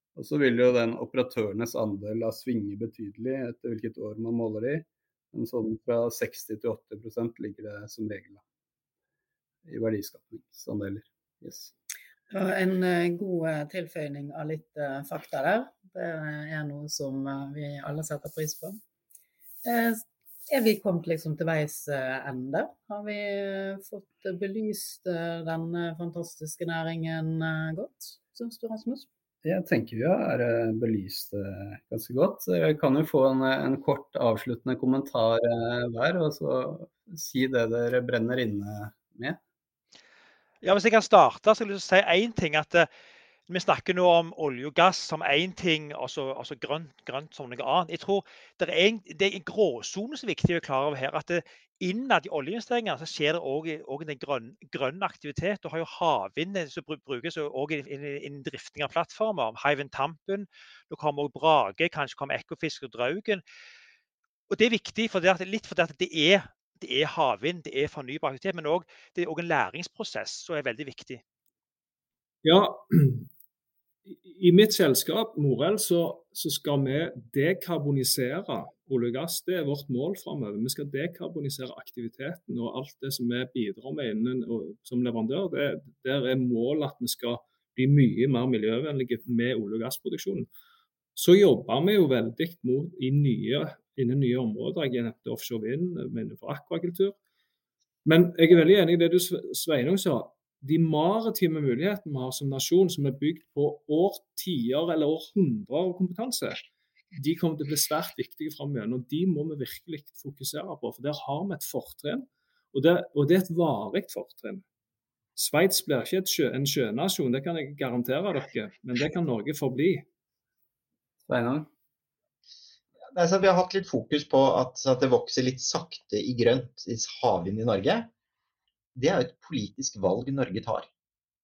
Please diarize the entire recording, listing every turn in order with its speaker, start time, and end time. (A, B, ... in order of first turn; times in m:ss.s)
0:00.2-0:08.4 A
0:09.6-0:11.7 A
0:12.3-0:18.8 B
0:19.6-0:29.1 B
0:29.4-0:39.4 A
0:40.6-0:42.9 C
0:43.5-1:03.4 C
1:04.5-1:11.2 C
1:12.4-1:13.3 D
1:14.1-1:30.5 D
1:31.2-1:37.2 D
1:38.0-1:46.6 D
1:47.1-1:54.6 D
1:55.4-2:00.1 D
2:01.2-2:01.7 A
2:03.1-2:08.1 E
2:09.0-2:10.9 E